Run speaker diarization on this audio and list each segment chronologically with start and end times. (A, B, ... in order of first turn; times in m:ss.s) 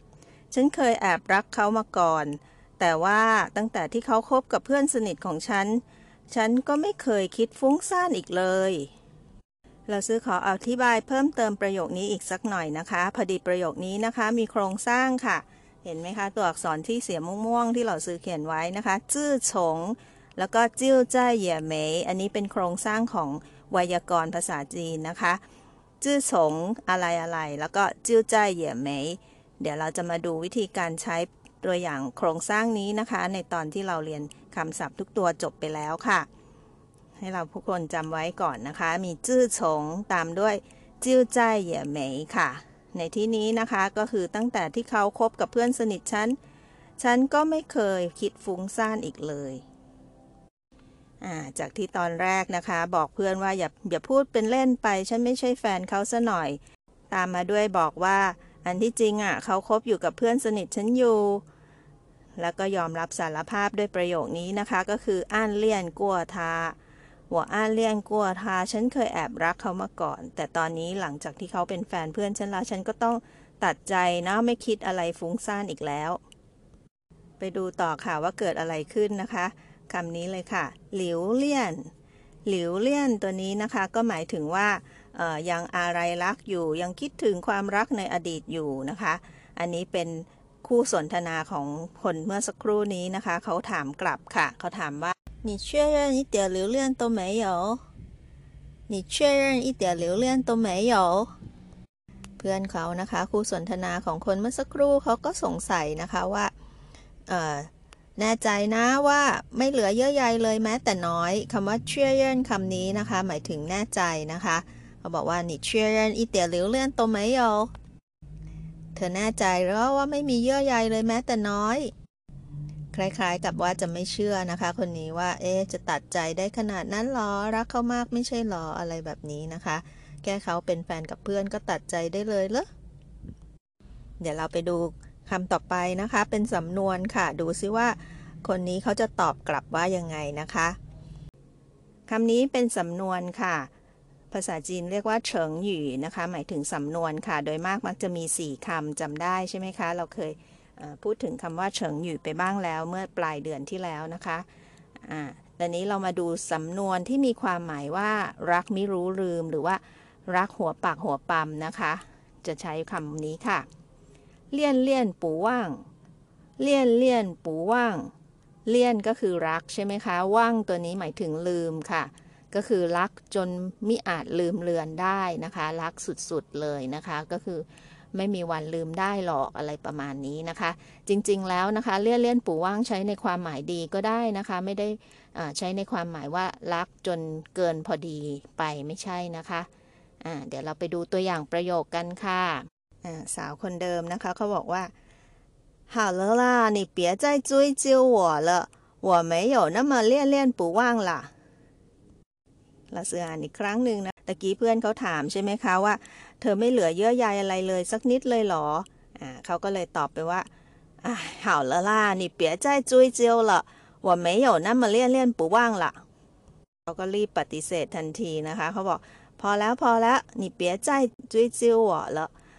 0:00.5-0:08.9 A
0:09.9-0:25.4 A
0:26.0-0:36.3 A
0:37.2-0:46.4 A
0:47.0-0:49.6 A
0:51.2-0:56.6 A
0:57.1-1:01.4 A
1:02.4-1:06.8 A
1:07.3-1:16.2 A
1:17.4-1:21.9 A
1:22.4-1:37.8 A
1:38.9-1:41.3 A
1:42.4-1:46.5 A
1:47.3-1:57.7 A
1:58.9-2:01.9 A
2:02.9-2:12.7 A
2:14.2-2:20.8 A
2:22.1-2:23.7 A
2:24.3-2:34.4 A
2:35.0-2:43.6 A
2:44.5-2:45.8 A
2:46.6-2:48.1 A
2:48.6-3:09.7 A
3:10.2-3:14.9 A
3:15.9-3:21.3 A
3:22.9-3:30.5 A
3:31.0-3:36.0 A
3:36.9-3:42.3 A